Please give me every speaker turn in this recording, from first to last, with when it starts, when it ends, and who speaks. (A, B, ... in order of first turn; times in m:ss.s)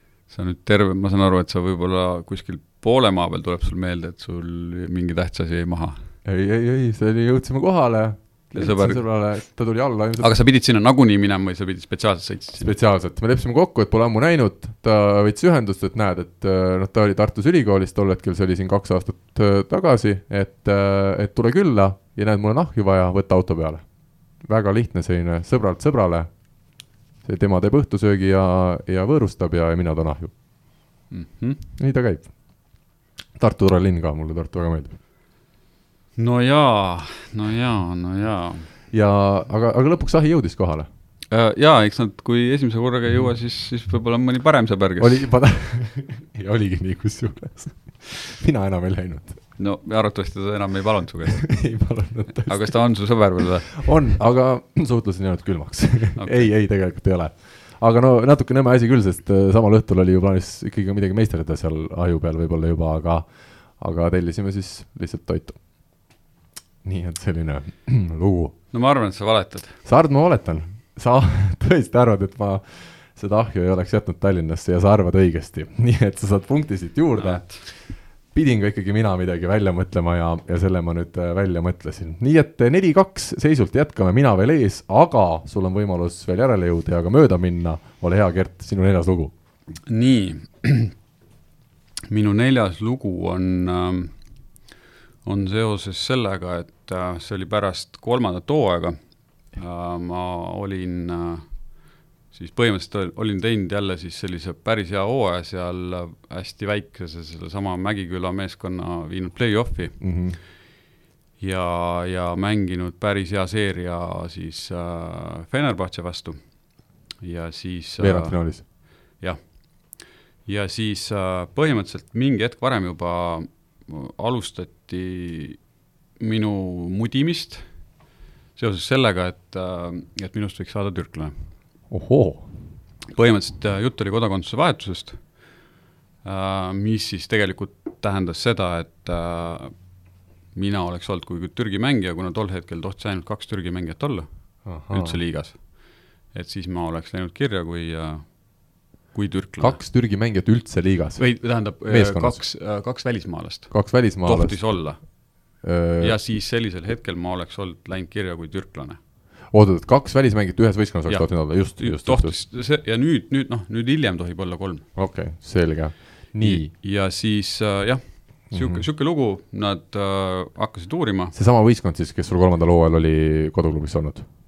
0:00.3-0:06.1 A
0:06.2-0:10.3 B
0:08.6-0:09.6 A
0:10.2-0:12.7 A
0:12.6-0:30.3 B
0:31.1-0:31.6 A
0:31.8-0:32.8 B
0:33.4-0:35.0 B
0:36.2-0:38.7 A
0:38.9-0:40.9 B
0:41.3-0:45.3 A
0:45.0-0:49.4 B
0:49.6-0:51.8 A
0:51.4-1:05.9 B
0:52.5-0:54.0 A
0:56.2-0:56.5 A
1:06.8-1:08.6 B
1:08.7-1:09.8 A
1:09.8-1:29.3 B
1:17.2-1:17.6 A
1:29.8-1:30.9 A
1:32.1-1:34.2 A
1:35.2-1:50.5 A
1:50.0-1:50.4 B
1:51.4-2:05.6 A
1:58.0-1:58.6 B
2:06.2-2:07.9 A
2:08.6-2:11.3 A
2:11.9-2:12.5 B
2:13.1-2:15.4 A
2:16.2-2:29.8 A
2:24.6-2:25.2 B
2:29.6-2:32.5 B
2:31.2-2:39.0 A
2:33.7-2:36.2 B
2:39.5-2:42.4 B
2:41.1-2:44.9 A
2:44.9-2:46.7 B
2:46.4-2:51.3 A
2:48.5-2:48.8 B
2:51.3-2:54.2 B